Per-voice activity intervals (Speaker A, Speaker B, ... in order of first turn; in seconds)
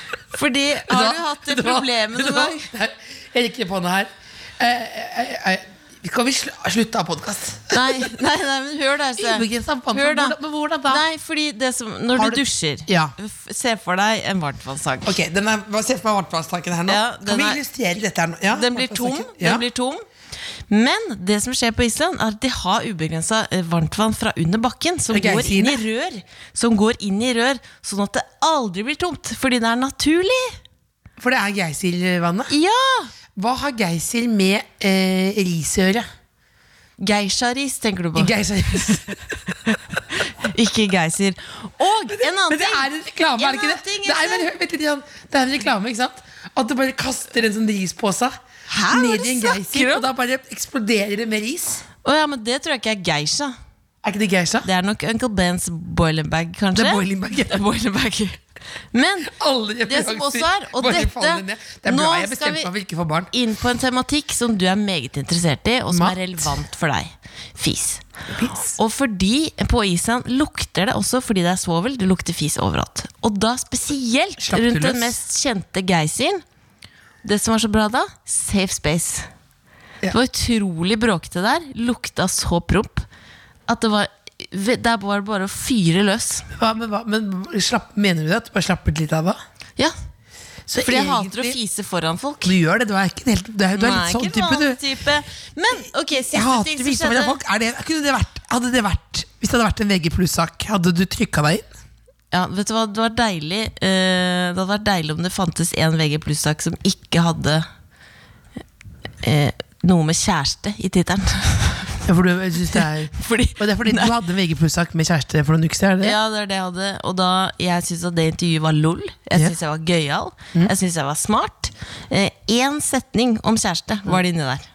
Speaker A: 0.3-2.7, 7.7-10.3, 10.9-15.2, 16.9-17.6, 18.5-20.0, 20.7-30.6, 32.5-33.1, 37.0-38.4, 40.1-44.5, 48.7-50.1, 52.0-53.5, 54.6-58.4, 58.9-59.3, 59.9-62.7, 63.3-76.4, 77.2-79.3, 80.1-83.1, 83.7-86.5, 90.8-92.5, 93.7-97.4, 102.3-107.7, 109.2-112.0, 113.1-114.2, 116.0-124.7
Speaker B: 0.9-8.1, 9.2-11.0, 12.1-13.1, 15.1-19.6, 25.1-25.9, 31.2-32.5, 33.4-36.1, 38.2-39.2, 42.1-51.9, 54.0-54.7, 56.8-57.6, 59.3-63.3, 65.9-66.5, 68.3-68.8, 74.4-75.2, 86.5-89.4, 90.7-91.6, 92.4-94.8, 96.3-101.7, 112.0-116.2